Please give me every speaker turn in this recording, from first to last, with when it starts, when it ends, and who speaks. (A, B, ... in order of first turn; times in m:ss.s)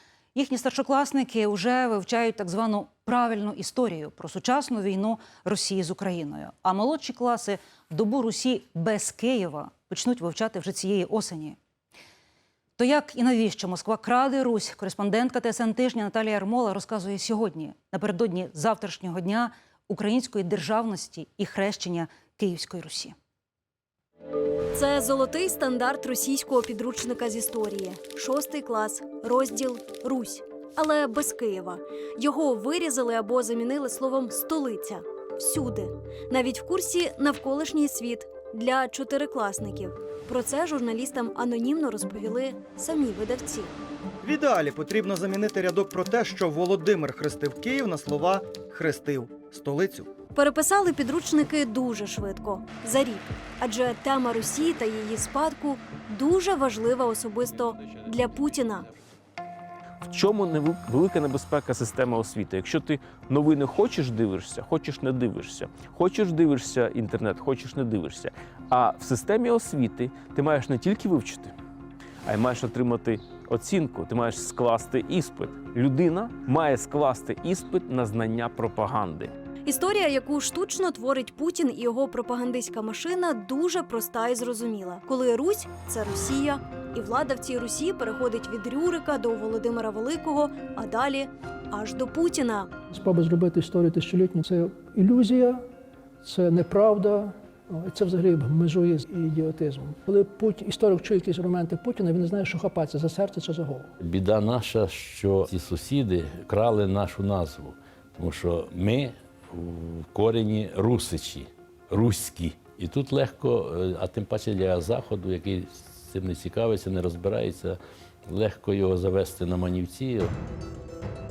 0:00.3-0:11.6 A
0:12.8-0:23.1 A
0:24.7-0:43.7 B
0:44.2-0:50.1 C
0:50.3-0:58.9 B
1:00.0-1:11.5 D
1:12.2-1:19.3 D
1:19.6-1:32.7 B
1:32.9-1:35.6 E
1:36.2-1:43.9 E
1:44.0-2:00.3 F